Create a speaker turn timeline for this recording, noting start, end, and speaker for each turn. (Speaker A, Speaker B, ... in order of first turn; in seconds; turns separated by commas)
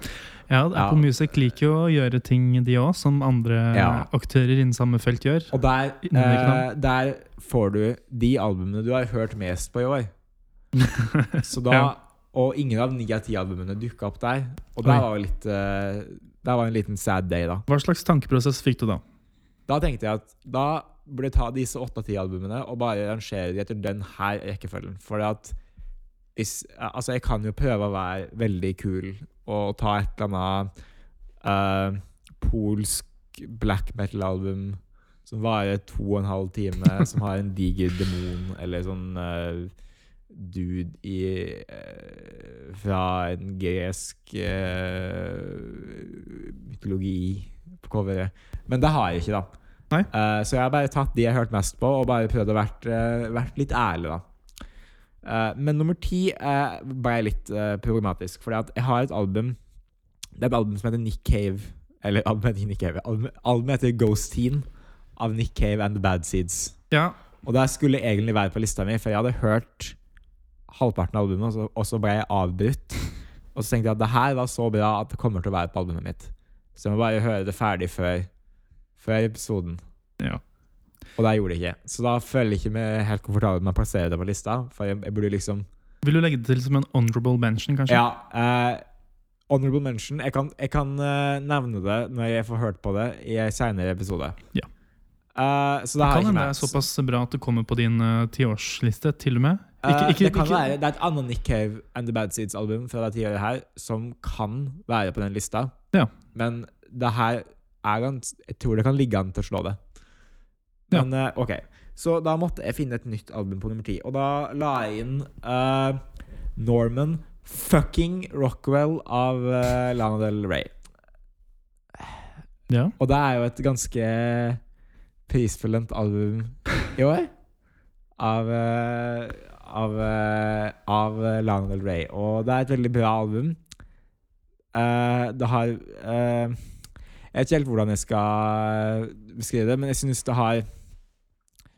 Speaker A: 0.5-6.7, Speaker B: 0.8-1.1, Speaker B: 3.7-4.1, Speaker B: 5.5-10.1, Speaker A: 10.8-11.9, Speaker B: 11.4-17.6, Speaker A: 17.7-19.0, Speaker B: 19.7-25.6, Speaker B: 26.4-30.7, Speaker B: 31.4-39.7, Speaker B: 40.3-49.5, Speaker B: 50.1-54.3, Speaker B: 55.2-59.6, Speaker B: 60.4-64.7, Speaker B: 65.2-66.8, Speaker A: 66.9-67.2, Speaker B: 67.4-70.0, Speaker B: 70.7-78.3, Speaker B: 79.0-79.8, Speaker B: 81.2-85.7, Speaker A: 86.0-88.0, Speaker B: 87.9-88.8, Speaker B: 89.5-94.4, Speaker B: 95.3-96.8, Speaker A: 96.0-100.7, Speaker B: 99.8-105.7, Speaker B: 106.3-109.8, Speaker B: 110.9-116.0, Speaker B: 116.6-120.8, Speaker A: 122.7-123.0, Speaker B: 123.0-124.6, Speaker B: 125.3-127.3, Speaker B: 128.2-133.6, Speaker B: 134.7-136.6, Speaker B: 137.3-140.7